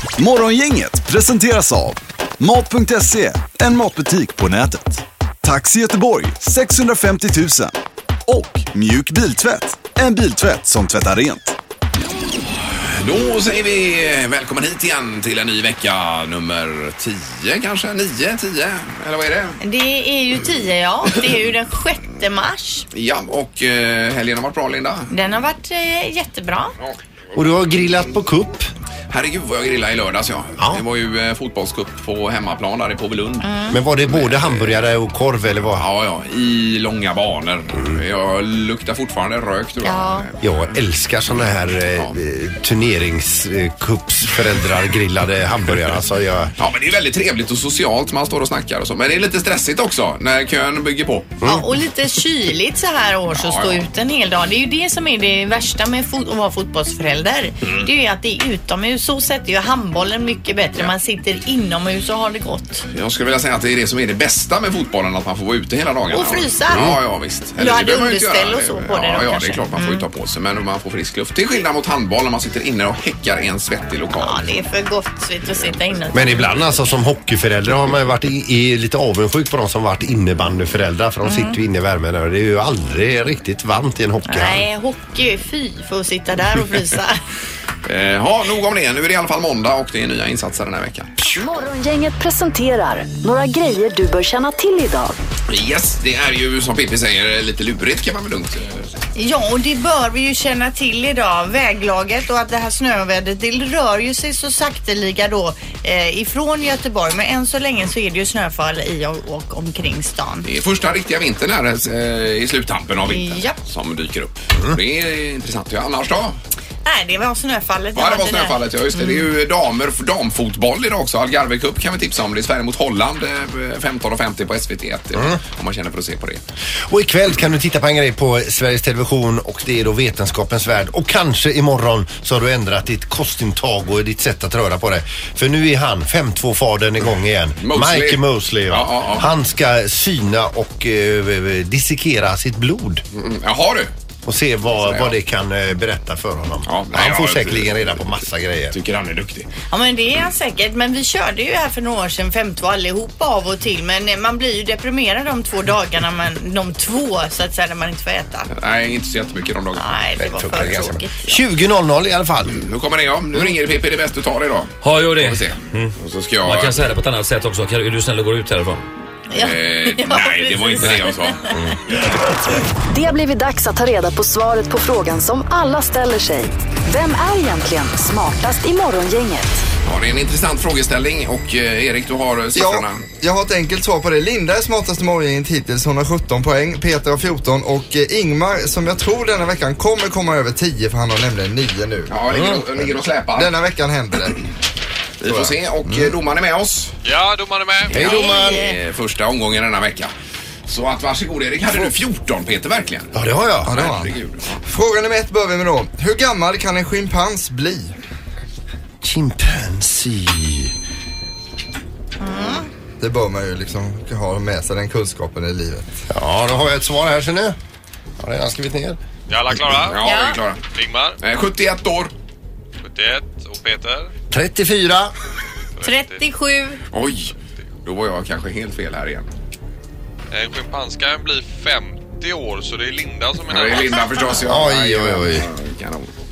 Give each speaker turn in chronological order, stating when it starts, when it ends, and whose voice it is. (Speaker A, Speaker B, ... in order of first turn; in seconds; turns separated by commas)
Speaker A: 0.2-7.7, Speaker A: 8.3-11.5, Speaker B: 12.6-19.6, Speaker C: 19.6-22.9, Speaker B: 22.9-25.1, Speaker C: 25.1-26.8, Speaker D: 27.3-28.7, Speaker B: 29.1-33.5, Speaker C: 33.4-33.8, Speaker D: 33.7-35.8, Speaker B: 34.0-34.8, Speaker B: 35.8-40.4, Speaker D: 37.7-38.0, Speaker C: 39.8-40.3, Speaker D: 40.4-46.5, Speaker B: 46.6-51.4, Speaker C: 51.4-62.8, Speaker B: 53.3-53.9, Speaker B: 62.9-74.5, Speaker C: 66.1-66.9, Speaker C: 67.6-70.0, Speaker C: 74.2-76.7, Speaker D: 76.1-84.6, Speaker C: 81.2-81.6, Speaker C: 84.2-87.2, Speaker B: 87.8-91.1, Speaker E: 91.2-95.2, Speaker B: 95.5-98.9, Speaker C: 99.2-110.5, Speaker B: 110.5-116.4, Speaker C: 113.1-113.6, Speaker C: 116.8-119.3, Speaker B: 118.0-126.4, Speaker D: 126.9-143.0, Speaker B: 137.6-139.3, Speaker B: 143.1-143.9, Speaker D: 144.2-148.8, Speaker B: 144.8-145.1, Speaker B: 146.7-148.1, Speaker B: 148.7-149.5, Speaker C: 149.7-158.5, Speaker B: 158.5-159.8, Speaker C: 159.8-161.2, Speaker D: 160.2-162.7, Speaker B: 162.5-166.9, Speaker F: 164.8-165.4, Speaker F: 166.4-168.8, Speaker C: 169.3-171.5, Speaker B: 169.3-171.5, Speaker E: 172.9-179.6, Speaker B: 179.8-183.0, Speaker G: 182.5-192.1, Speaker B: 192.1-193.5, Speaker D: 192.3-192.7, Speaker G: 193.3-194.4, Speaker B: 195.2-196.9, Speaker G: 195.3-196.1, Speaker H: 197.0-198.0, Speaker D: 197.9-198.7, Speaker C: 197.9-198.7, Speaker B: 198.0-200.1, Speaker B: 200.7-203.1, Speaker D: 203.1-203.8, Speaker B: 203.7-204.5, Speaker G: 203.7-207.9, Speaker D: 209.0-210.7, Speaker C: 212.2-212.7, Speaker G: 213.0-215.8, Speaker D: 216.1-217.6, Speaker D: 218.2-219.0, Speaker H: 219.3-220.2, Speaker B: 219.8-220.6, Speaker C: 220.0-220.4, Speaker H: 220.7-221.2, Speaker B: 221.2-222.1, Speaker H: 222.8-224.1, Speaker D: 224.3-225.1, Speaker H: 225.8-226.2, Speaker C: 225.8-226.8, Speaker B: 226.9-227.3, Speaker B: 227.8-229.3, Speaker H: 230.3-234.1, Speaker B: 233.5-236.1, Speaker D: 234.5-235.4